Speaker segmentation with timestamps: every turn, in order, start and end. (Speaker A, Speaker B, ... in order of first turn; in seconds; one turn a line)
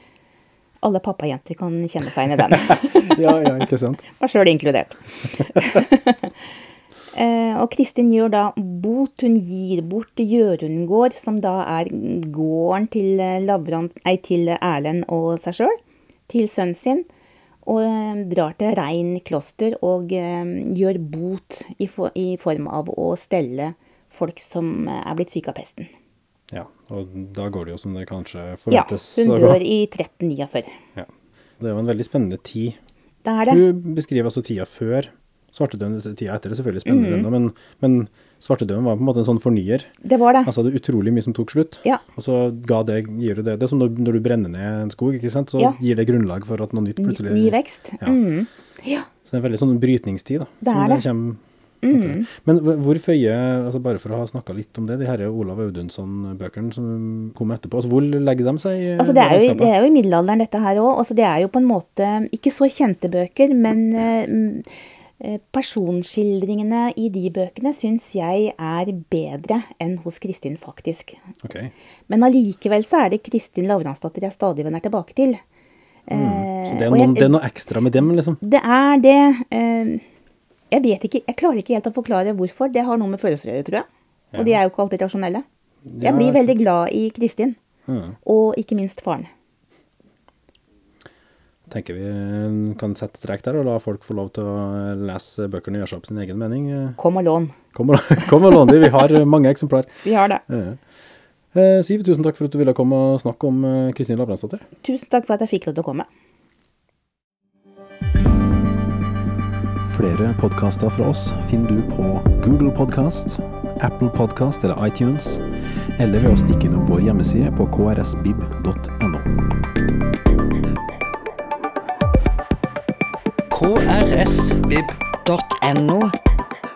Speaker A: 0.8-3.3
Speaker B: 2.7-4.1
Speaker A: 4.1-6.3
Speaker A: 7.1-15.8
Speaker A: 16.3-17.1
Speaker A: 17.6-25.9
Speaker B: 26.5-29.6
Speaker A: 28.7-30.8
Speaker B: 31.6-32.8
Speaker A: 33.2-33.6
Speaker B: 33.5-39.9
Speaker A: 36.9-37.3
Speaker A: 40.0-40.5
Speaker B: 40.4-48.2
Speaker A: 47.0-49.1
Speaker B: 49.3-59.7
Speaker A: 50.6-51.1
Speaker A: 51.8-52.3
Speaker A: 59.0-64.7
Speaker A: 65.2-71.2
Speaker B: 71.4-71.7
Speaker A: 72.1-75.4
Speaker A: 76.1-77.4
Speaker B: 76.1-78.4
Speaker A: 78.4-80.0
Speaker A: 80.7-85.5
Speaker B: 84.3-84.6
Speaker B: 85.9-86.5
Speaker A: 86.0-87.6
Speaker B: 87.9-88.2
Speaker A: 88.2-89.3
Speaker B: 91.7-97.0
Speaker A: 97.0-97.6
Speaker B: 97.7-100.8
Speaker A: 100.0-100.4
Speaker B: 101.5-104.7
Speaker A: 104.8-106.1
Speaker B: 109.8-115.4
Speaker B: 116.0-119.3
Speaker C: 123.5-126.1